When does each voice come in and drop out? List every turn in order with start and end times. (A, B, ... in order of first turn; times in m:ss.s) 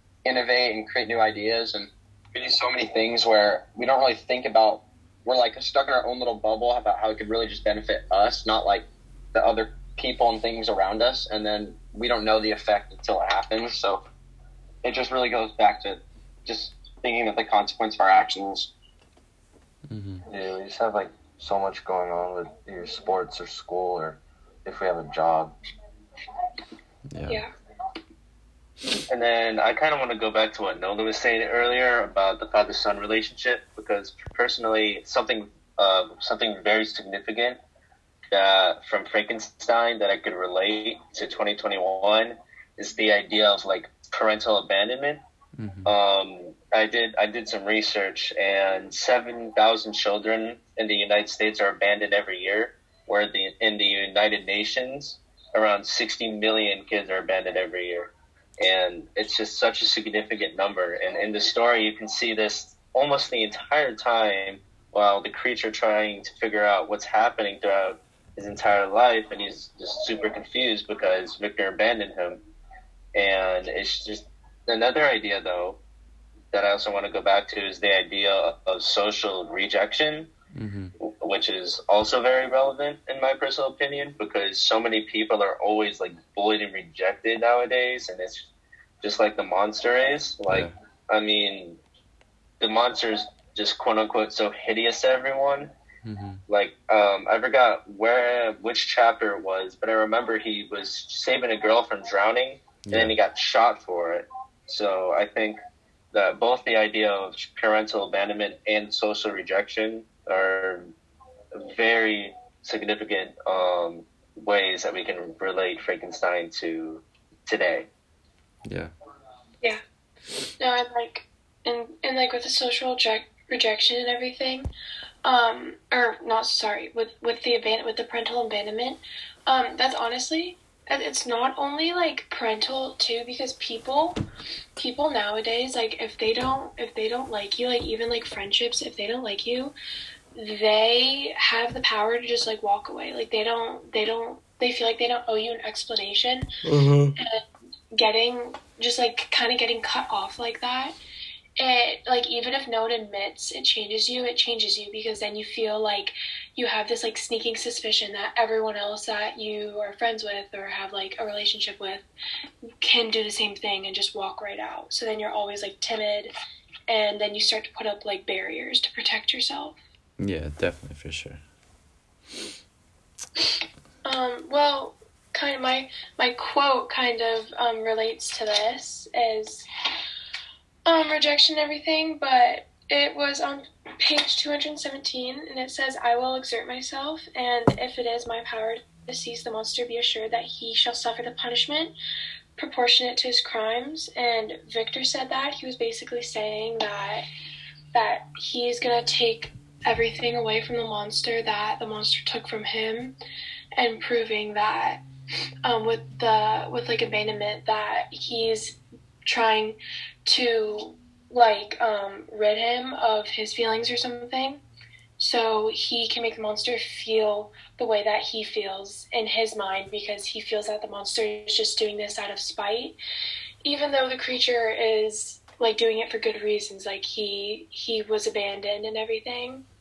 0:00.2-0:14.0 A
0:14.8-0:18.7 A
0:19.9-0:20.2 B
0:20.3-0:25.6 C
0:27.1-0:27.4 B
0:29.1-0:37.6 D
0:38.3-0:45.2 D
0:45.6-0:45.9 B
0:45.9-1:12.4 D
1:13.2-1:15.8 D
1:16.5-1:20.3 D
1:20.5-1:20.9 B
1:21.0-1:28.5 D
1:29.0-1:31.8 D
1:30.5-1:30.7 B
1:32.6-1:35.7 D
1:36.0-1:36.4 B
1:36.5-1:45.6 D
1:42.9-1:43.2 B
1:46.1-1:50.9 D
1:51.5-1:57.9 D
1:58.7-1:58.9 B
2:00.6-2:04.7 E
2:05.2-2:14.2 E
2:14.8-2:19.7 E
2:20.4-2:26.5 E
2:27.2-2:31.0 E
2:31.6-2:42.1 E
2:42.8-2:46.3 E
2:46.9-2:49.8 E
2:50.2-2:51.4 B
2:54.0-2:59.7 E
3:00.9-3:11.9 E
3:12.6-3:17.2 E
3:17.9-3:23.2 E
3:23.8-3:25.0 E
3:25.6-3:34.6 E
3:35.2-3:43.0 E
3:43.6-3:49.6 E